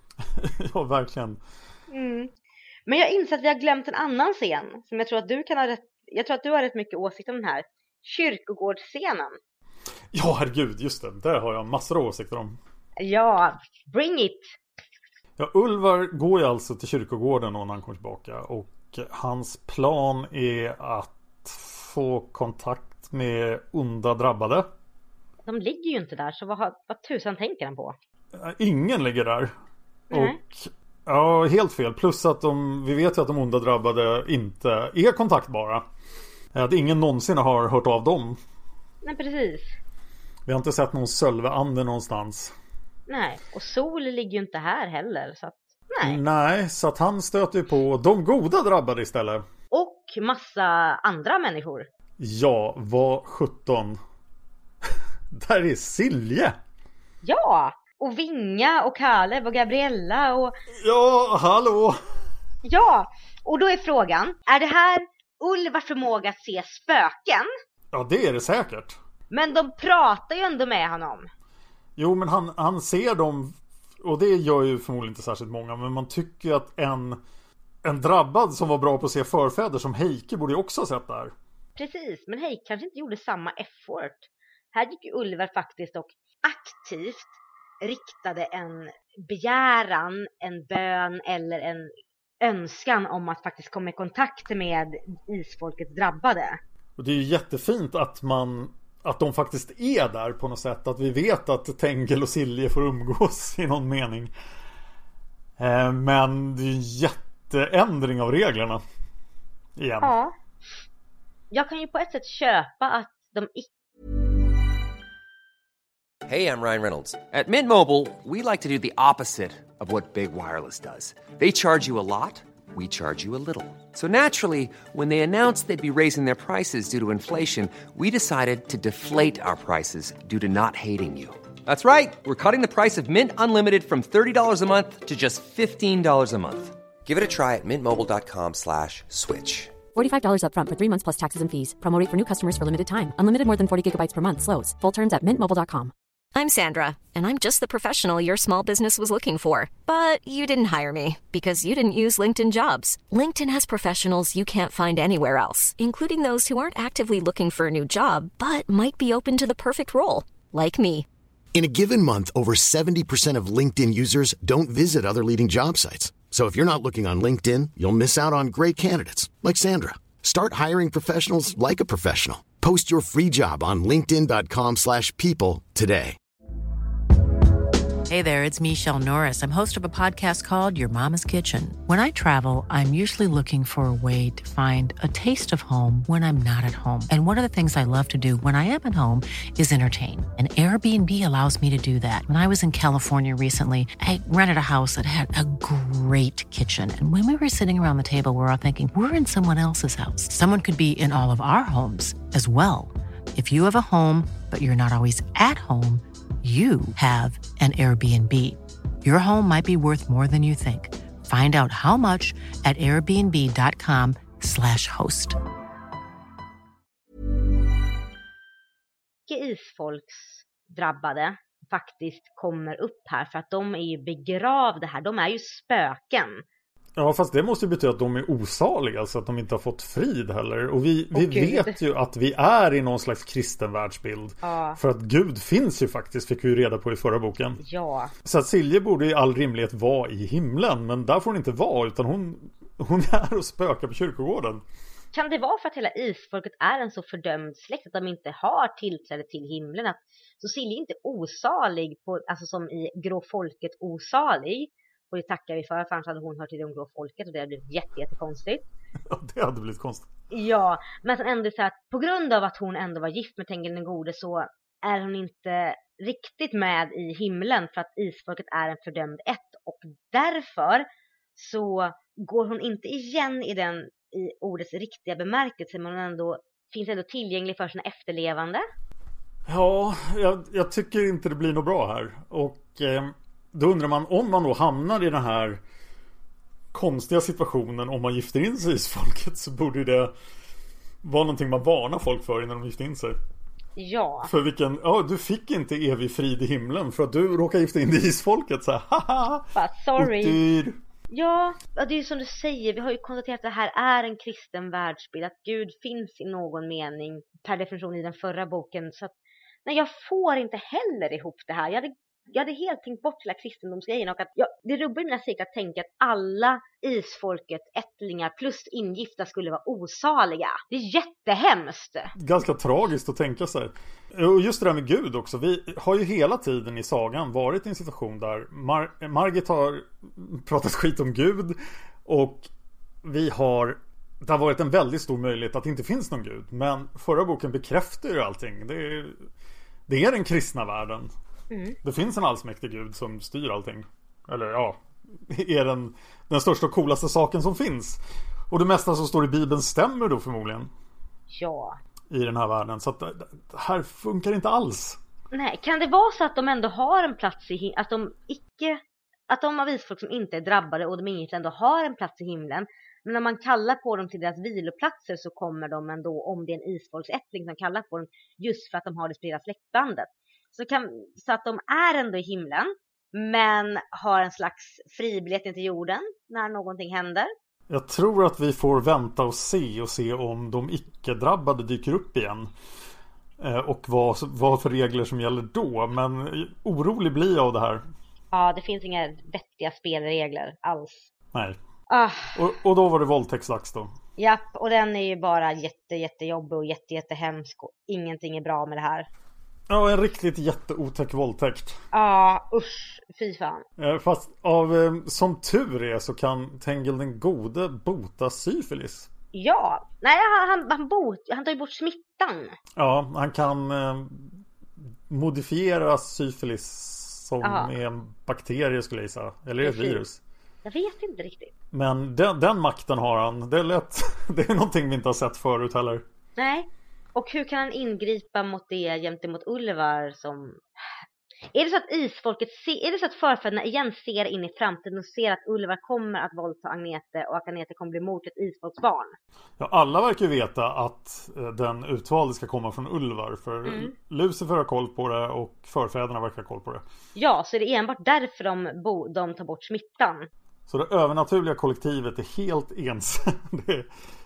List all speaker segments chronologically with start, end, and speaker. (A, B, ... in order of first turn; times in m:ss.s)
0:00.4-0:01.4 A
0:01.9-0:02.3 B
0:02.9-0:09.4 B
0:10.1-0:12.6 A
0:13.0-0:14.5 B
0:15.4-0:24.7 A
0:25.4-0:28.0 B
0:28.3-0:29.5 A
0:30.1-0:35.8 A
0:30.1-0:30.4 B
0:36.5-0:38.4 A
0:39.0-0:39.8 B
0:40.4-0:42.5 A
0:43.1-0:46.2 B
0:46.0-0:49.4 A
0:49.7-0:51.9 B
0:52.2-0:54.0 A
0:55.3-0:56.6 A
0:57.2-1:00.5 B
1:00.8-1:02.0 A
1:02.6-1:07.5 B
1:07.9-1:09.0 A
1:09.3-1:11.3 B
1:12.0-1:17.2 A
1:17.8-1:21.3 A
1:21.8-1:36.6 B
1:37.0-1:44.3 A
1:45.6-1:48.8 A
1:49.8-1:50.1 A
1:50.0-1:50.3 B
1:51.5-1:53.7 B
1:56.3-2:19.8 C
2:19.9-2:25.9 D
2:26.3-2:41.0 E
2:41.5-2:56.2 F
2:58.1-3:35.4 G
3:39.3-3:46.4 B
3:47.0-3:57.6 A
3:51.1-3:51.8 B
3:54.4-3:54.8 B
3:57.6-3:58.1 B
3:58.2-4:04.6 A
4:05.1-4:18.6 B
4:19.1-4:20.1 A
4:20.3-4:38.6 B
4:39.5-4:45.6 A
4:46.7-4:50.1 A
4:51.0-4:53.2 A
4:53.8-4:54.3 B
4:54.2-5:00.8 A
4:59.6-5:00.4 B
5:01.1-5:09.1 B
5:09.6-5:22.1 B
5:22.2-5:32.5 A
5:33.0-5:39.2 A
5:39.9-5:41.1 A
5:41.5-5:41.8 B
5:41.8-5:50.7 A
5:51.3-5:51.8 B
5:52.1-5:55.0 A
5:55.3-6:17.3 B
6:17.7-6:22.5 A
6:23.4-6:27.8 A
6:28.3-6:31.1 B
6:31.9-6:32.4 B
6:32.4-6:33.9 A
6:34.2-6:39.1 B
6:39.7-6:41.8 A
6:41.9-6:43.6 B
6:43.8-6:49.1 A
6:49.3-6:52.5 B
6:52.8-6:54.4 A
6:55.1-7:00.2 A
6:57.4-6:57.7 B
6:59.6-7:00.0 B
7:00.6-7:01.5 B
7:01.7-7:06.0 A
7:06.4-7:10.6 B
7:11.5-7:19.2 B
7:19.6-7:26.8 A
7:23.6-7:23.9 B
7:27.2-7:30.3 B
7:30.7-7:33.9 A